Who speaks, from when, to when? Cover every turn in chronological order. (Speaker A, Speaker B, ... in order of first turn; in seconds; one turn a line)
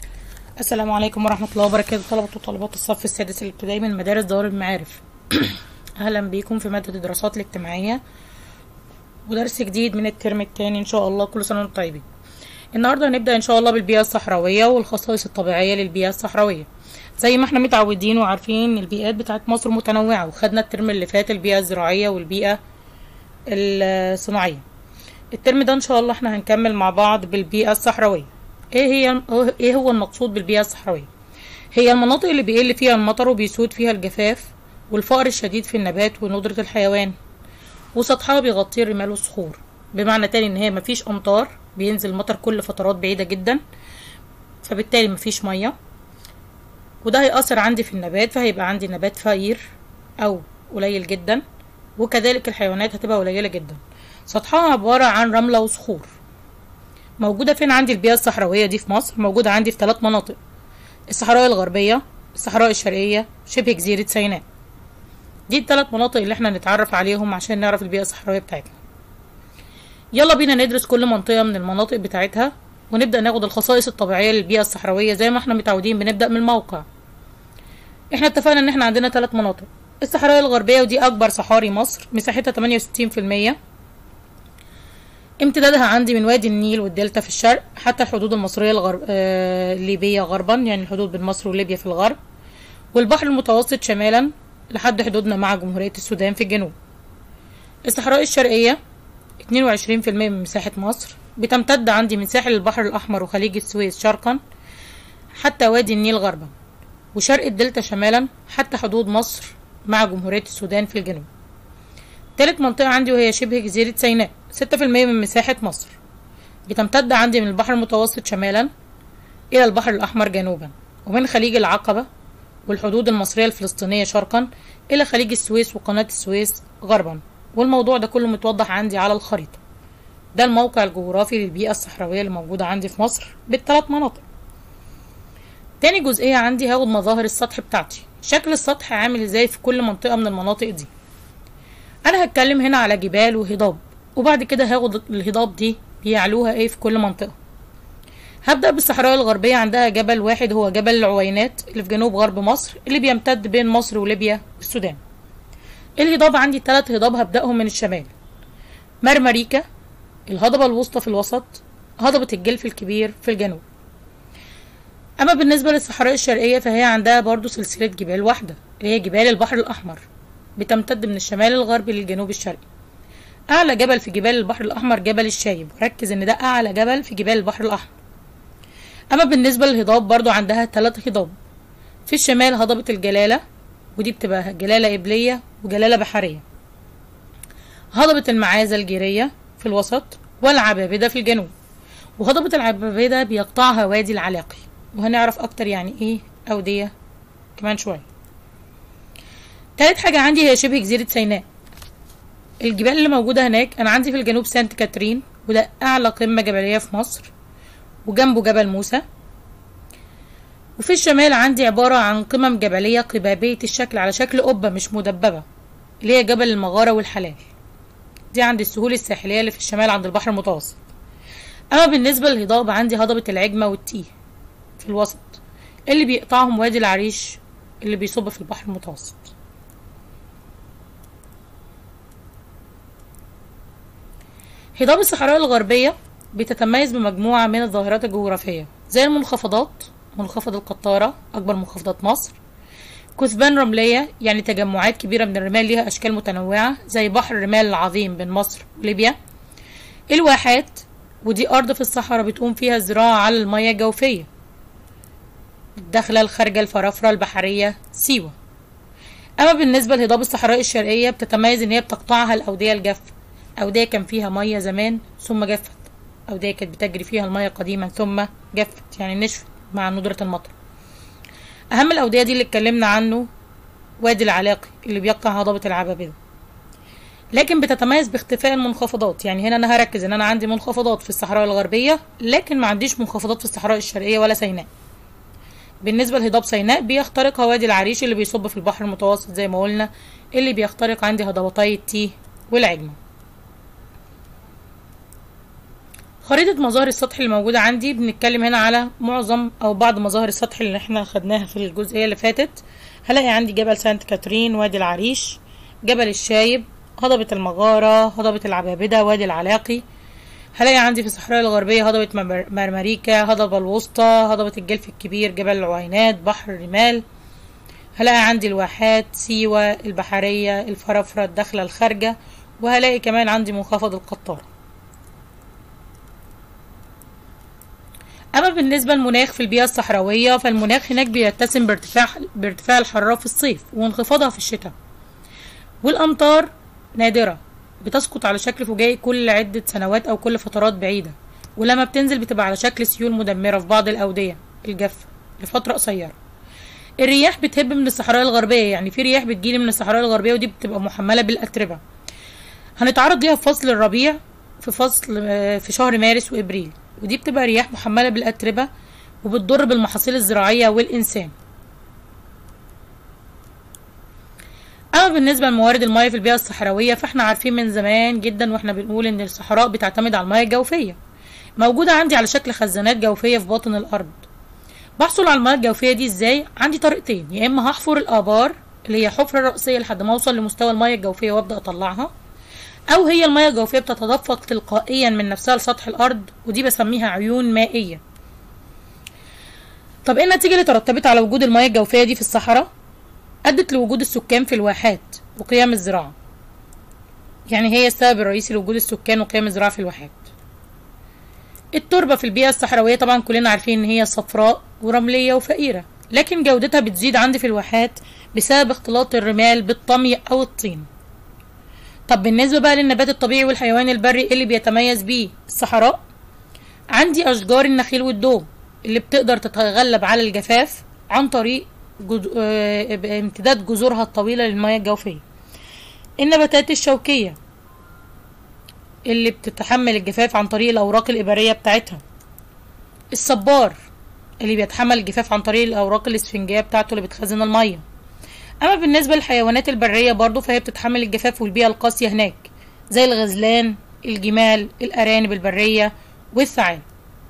Speaker A: 0.6-8.0
Speaker A: 9.2-12.1
Speaker A: 12.7-16.7
Speaker A: 17.2-22.6
Speaker A: 23.5-24.6
Speaker A: 25.3-31.1
Speaker A: 31.7-37.1
Speaker A: 37.9-43.6
Speaker A: 44.6-45.7
Speaker A: 47.0-49.6
Speaker A: 50.2-51.4
Speaker A: 52.0-56.1
Speaker A: 57.2-60.4
Speaker A: 61.1-64.4
Speaker A: 65.5-68.8
Speaker A: 70.1-76.8
Speaker A: 78.1-83.6
Speaker A: 85.4-92.2
Speaker A: 92.9-96.7
Speaker A: 97.8-98.8
Speaker A: 99.4-104.4
Speaker A: 105.4-106.5
Speaker A: 107.1-111.3
Speaker A: 112.4-116.0
Speaker A: 116.7-118.7
Speaker A: 119.5-122.1
Speaker A: 122.7-129.6
Speaker A: 130.3-134.2
Speaker A: 135.8-140.9
Speaker A: 142.0-147.3
Speaker A: 148.4-155.0
Speaker A: 156.0-158.1
Speaker A: 159.0-159.6
Speaker A: 160.3-163.6
Speaker A: 165.2-170.1
Speaker A: 170.6-172.6
Speaker A: 173.5-177.9
Speaker A: 179.1-181.3
Speaker A: 182.1-183.4
Speaker A: 183.9-186.4
Speaker A: 187.9-191.5
Speaker A: 192.2-196.9
Speaker A: 197.6-198.1
Speaker A: 199.8-201.4
Speaker A: 202.6-207.3
Speaker A: 208.0-209.0
Speaker A: 210.8-215.4
Speaker A: 216.0-217.5
Speaker A: 218.3-220.8
Speaker A: 221.7-224.1
Speaker A: 224.8-229.3
Speaker A: 234.8-242.4
Speaker A: 243.2-249.2
Speaker A: 250.1-254.3
Speaker A: 255.8-258.4
Speaker A: 259.4-270.6
Speaker A: 271.7-273.3
Speaker A: 274.0-276.2
Speaker A: 277.3-284.7
Speaker A: 285.8-293.0
Speaker A: 296.2-309.8
Speaker A: 310.5-317.0
Speaker A: 317.9-324.5
Speaker A: 328.3-334.7
Speaker A: 335.8-346.1
Speaker A: 347.0-351.8
Speaker A: 352.8-358.7
Speaker A: 359.2-361.3
Speaker A: 364.9-371.0
Speaker A: 371.6-374.2
Speaker A: 375.0-382.1
Speaker A: 382.9-388.0
Speaker A: 390.0-392.7
Speaker A: 393.4-396.1
Speaker A: 397.5-400.3
Speaker A: 401.7-410.9
Speaker A: 412.1-416.0
Speaker A: 416.9-425.2
Speaker A: 426.2-427.4
Speaker A: 429.1-432.0
Speaker A: 433.1-433.8
Speaker A: 434.4-437.8
Speaker A: 438.6-446.8